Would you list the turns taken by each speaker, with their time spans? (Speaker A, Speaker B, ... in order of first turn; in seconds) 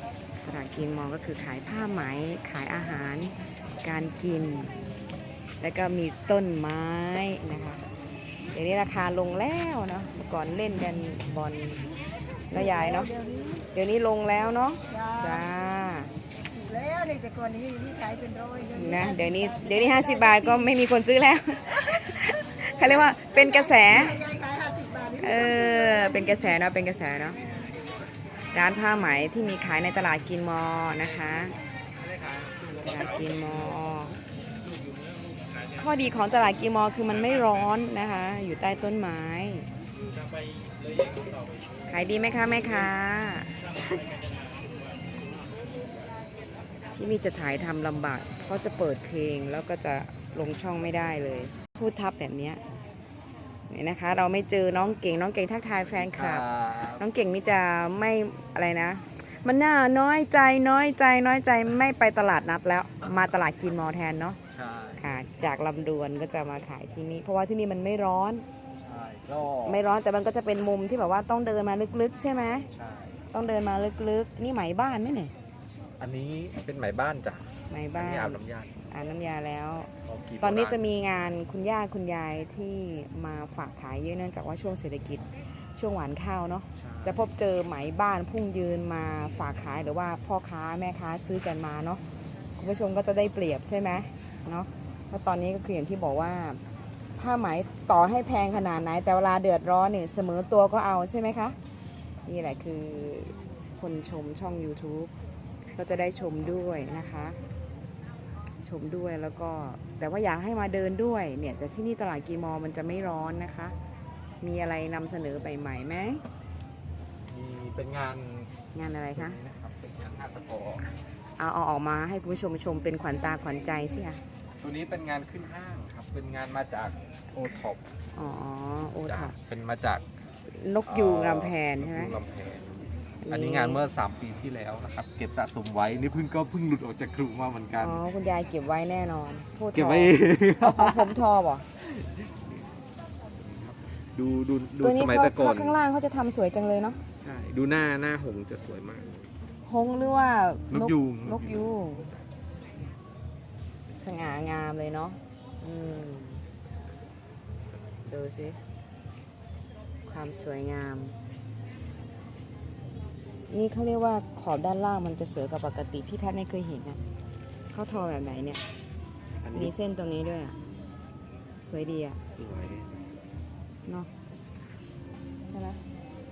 Speaker A: 0.4-4.8, 5.6-7.8, 8.5-11.9, 12.5-13.2, 13.7-16.1, 18.6-24.3, 25.1-27.4, 28.5-31.6, 32.8-34.2, 35.7-39.7, 41.9-43.5, 47.0-52.6, 53.7-64.4, 65.0-68.5, 69.7-72.7, 73.3-75.3, 77.7-92.0, 92.6-96.6, 97.2-101.6, 102.3-105.1, 105.8-107.4, 108.6-113.8, 114.4-116.2, 118.7-119.4, 121.4-124.2, 128.2-129.3, 130.5-132.2, 133.2-133.8, 137.8-141.7, 144.8-147.0, 149.7-152.1, 153.9-156.4, 158.1-158.6, 160.1-161.2, 163.5-167.0, 167.7-168.6, 169.5-170.6, 171.6-172.2, 175.5-175.8
Speaker B: 16.6-18.7, 24.4-25.1
Speaker C: 32.0-33.2, 40.2-41.6, 55.9-57.0, 64.5-65.2, 68.8-69.8, 72.7-73.2, 76.0-78.8, 80.0-80.8, 86.8-87.2, 117.3-118.5, 119.1-120.9, 124.6-127.9, 129.1-130.1, 130.9-138.0, 139.7-141.1, 141.8-142.7, 143.4-145.8, 147.2-149.3, 150.7-151.7, 169.4-169.7, 172.4-173.0